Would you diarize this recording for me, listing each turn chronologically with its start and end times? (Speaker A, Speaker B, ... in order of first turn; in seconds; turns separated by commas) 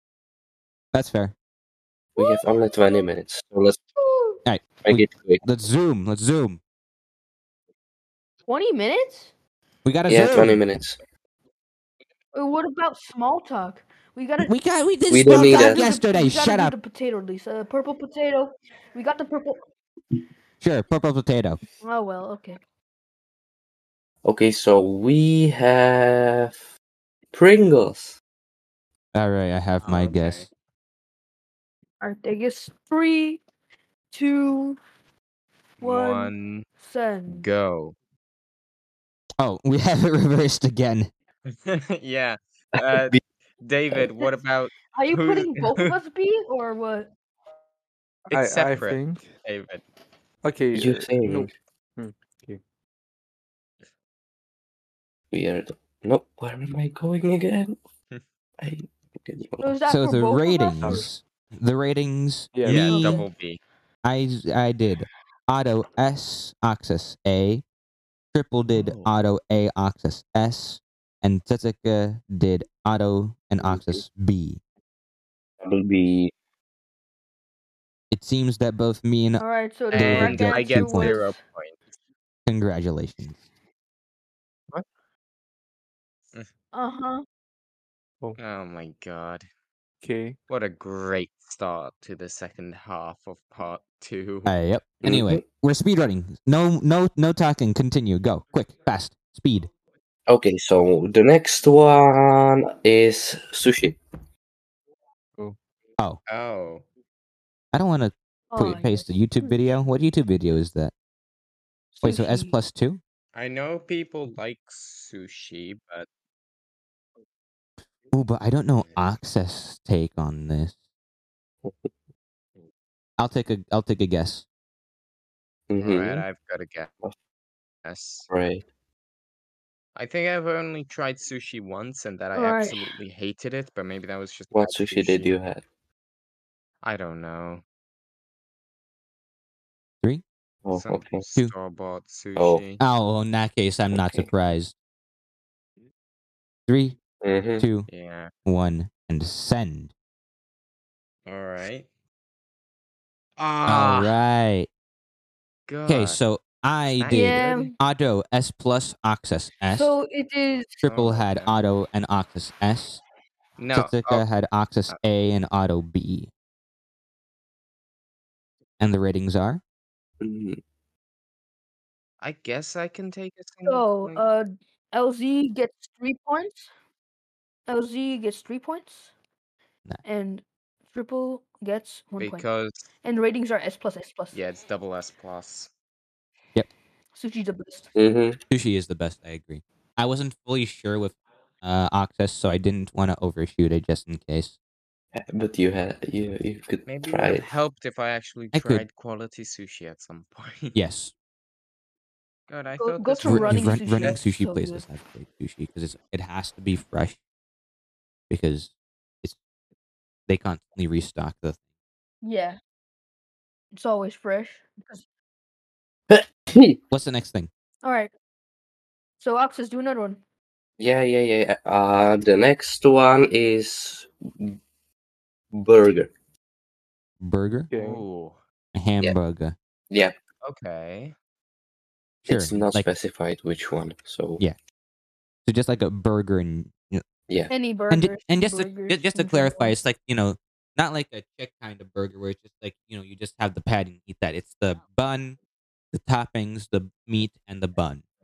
Speaker A: 0.9-1.3, Speaker B: 2.2-3.8, Speaker C: 2.2-3.0, Speaker C: 4.0-4.4, Speaker A: 4.5-6.6, Speaker B: 4.8-5.4, Speaker C: 8.5-9.3, Speaker A: 9.8-10.8, Speaker B: 10.1-11.0, Speaker C: 12.3-14.5, Speaker A: 14.4-16.8, Speaker B: 15.1-15.9, Speaker C: 15.4-19.6, Speaker A: 20.6-21.6, Speaker C: 21.8-22.6, Speaker B: 24.2-26.6, Speaker B: 27.3-28.2, Speaker A: 29.1-30.5, Speaker D: 29.8-30.5, Speaker C: 32.0-33.4, Speaker C: 34.1-34.8, Speaker D: 35.8-36.7, Speaker C: 35.8-37.5, Speaker D: 37.3-38.0, Speaker A: 39.4-41.1, Speaker D: 41.5-45.9, Speaker C: 44.9-47.1, Speaker D: 48.3-49.8, Speaker E: 48.3-49.2, Speaker E: 50.4-52.6, Speaker B: 50.7-51.5, Speaker B: 55.3-57.8, Speaker B: 58.6-59.8, Speaker C: 59.6-61.1, Speaker A: 59.9-63.0, Speaker E: 62.5-62.9, Speaker D: 62.6-63.6, Speaker C: 62.7-63.3, Speaker A: 64.0-67.6, Speaker A: 68.3-74.6, Speaker D: 68.7-69.1, Speaker B: 73.6-74.0, Speaker B: 75.6-76.3, Speaker A: 78.1-81.2, Speaker C: 79.4-81.4, Speaker D: 79.9-81.8, Speaker A: 82.5-83.4, Speaker C: 86.7-87.2, Speaker D: 88.4-89.5, Speaker E: 90.0-90.3, Speaker D: 90.5-94.5, Speaker A: 94.5-99.7, Speaker B: 95.0-95.4, Speaker B: 100.3-104.0, Speaker D: 106.3-106.8, Speaker A: 107.7-110.9, Speaker C: 108.5-109.6, Speaker C: 111.9-112.6, Speaker A: 112.0-113.0, Speaker D: 113.3-116.1, Speaker A: 118.1-120.8, Speaker D: 118.8-119.1, Speaker A: 123.2-124.5, Speaker B: 125.7-126.3, Speaker D: 125.8-126.9, Speaker D: 127.8-128.3, Speaker B: 128.3-128.6, Speaker D: 130.0-135.3, Speaker C: 132.3-132.8, Speaker B: 134.5-135.6, Speaker D: 136.8-137.6, Speaker B: 140.7-141.2, Speaker D: 140.7-142.8, Speaker B: 142.4-142.6, Speaker A: 142.8-144.7, Speaker B: 143.9-144.3, Speaker A: 146.7-147.0, Speaker B: 147.2-147.7, Speaker A: 147.6-147.9, Speaker D: 147.9-148.3, Speaker A: 148.5-149.9, Speaker D: 151.3-151.9, Speaker D: 153.4-154.2, Speaker A: 153.7-154.7, Speaker D: 155.7-156.2, Speaker A: 155.9-160.0, Speaker D: 157.0-157.7, Speaker C: 157.1-157.7, Speaker C: 159.7-160.8, Speaker A: 160.8-163.0, Speaker D: 160.8-161.5, Speaker D: 163.6-164.3, Speaker A: 163.7-166.3, Speaker A: 168.8-169.6, Speaker B: 170.2-170.6, Speaker D: 172.2-174.2, Speaker C: 173.7-176.7, Speaker C: 177.7-179.1, Speaker C: 180.1-182.5, Speaker D: 182.2-182.9, Speaker C: 183.0-184.4, Speaker D: 184.3-185.7, Speaker C: 187.1-187.9, Speaker B: 188.0-188.4, Speaker A: 188.5-194.5, Speaker B: 195.2-197.5, Speaker D: 196.8-200.8, Speaker A: 198.5-198.8, Speaker A: 200.8-201.1, Speaker D: 202.5-204.3, Speaker C: 202.8-204.8, Speaker A: 203.2-207.2, Speaker A: 208.3-209.4, Speaker A: 210.3-211.6, Speaker C: 212.2-212.6, Speaker C: 213.7-215.1, Speaker B: 216.1-216.8, Speaker A: 216.9-217.5, Speaker C: 217.8-218.1, Speaker C: 219.2-220.2, Speaker B: 220.8-224.6, Speaker B: 225.5-226.1, Speaker A: 227.2-227.7, Speaker E: 227.7-228.0, Speaker D: 227.7-228.4, Speaker A: 228.8-229.6, Speaker D: 230.4-231.1, Speaker B: 232.3-234.4, Speaker A: 232.3-232.9, Speaker A: 235.4-237.0, Speaker C: 237.5-239.8, Speaker A: 237.9-245.4, Speaker A: 245.9-248.0